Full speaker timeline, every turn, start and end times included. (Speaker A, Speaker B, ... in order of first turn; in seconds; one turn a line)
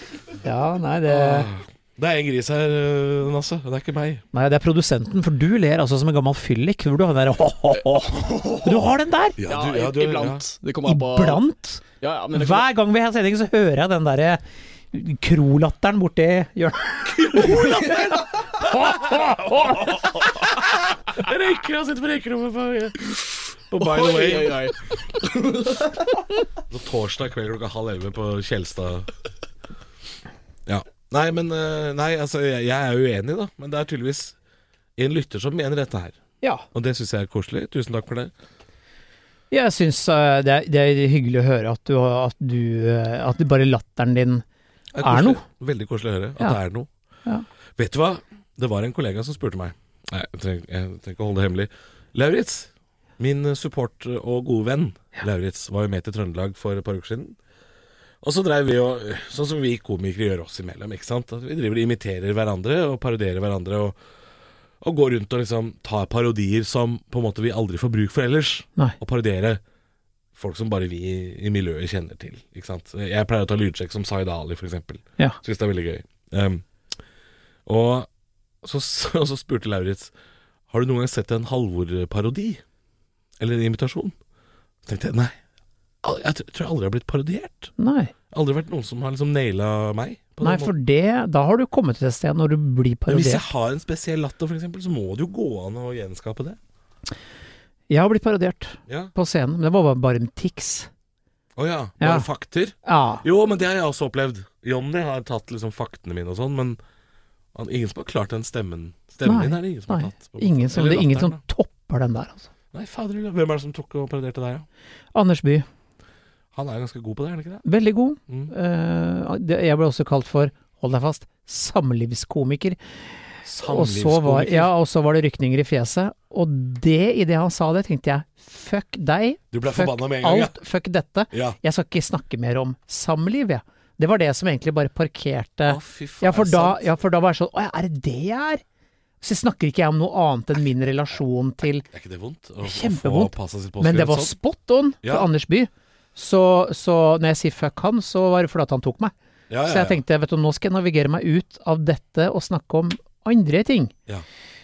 Speaker A: 0.4-1.5
Speaker B: 1.1-4.2
Speaker A: 4.3-9.4
Speaker B: 9.4-10.4
Speaker C: 9.4-11.4
Speaker A: 10.8-18.0
Speaker C: 12.0-12.7
Speaker B: 17.0-24.7
Speaker A: 18.6-19.9
Speaker C: 23.8-26.1
Speaker B: 26.7-29.1
Speaker B: 30.6-34.4
Speaker B: 35.0-36.2
Speaker B: 36.7-38.3
Speaker A: 39.5-44.4
Speaker B: 44.9-46.9
Speaker A: 45.0-45.4
Speaker B: 47.8-57.4
Speaker B: 58.2-64.0
Speaker B: 64.8-69.6
Speaker B: 70.3-76.6
Speaker B: 77.7-78.1
Speaker B: 78.6-80.1
Speaker B: 80.7-82.6
Speaker B: 83.4-84.2
Speaker B: 84.8-85.3
Speaker B: 86.0-87.7
Speaker A: 87.8-88.1
Speaker B: 88.3-90.7
Speaker A: 90.4-93.4
Speaker B: 93.1-96.6
Speaker A: 97.9-100.9
Speaker B: 98.9-99.1
Speaker B: 101.5-106.8
Speaker A: 102.0-102.3
Speaker A: 102.8-103.2
Speaker B: 107.5-111.4
Speaker A: 109.2-112.5
Speaker B: 112.7-114.7
Speaker A: 115.1-115.7
Speaker B: 116.5-117.6
Speaker A: 117.6-122.8
Speaker B: 123.5-124.7
Speaker A: 123.6-138.6
Speaker B: 129.5-130.6
Speaker B: 131.3-131.6
Speaker B: 135.7-136.8
Speaker A: 139.2-141.8
Speaker B: 141.9-144.3
Speaker A: 142.6-149.1
Speaker B: 145.0-145.3
Speaker B: 149.5-150.0
Speaker A: 149.6-153.9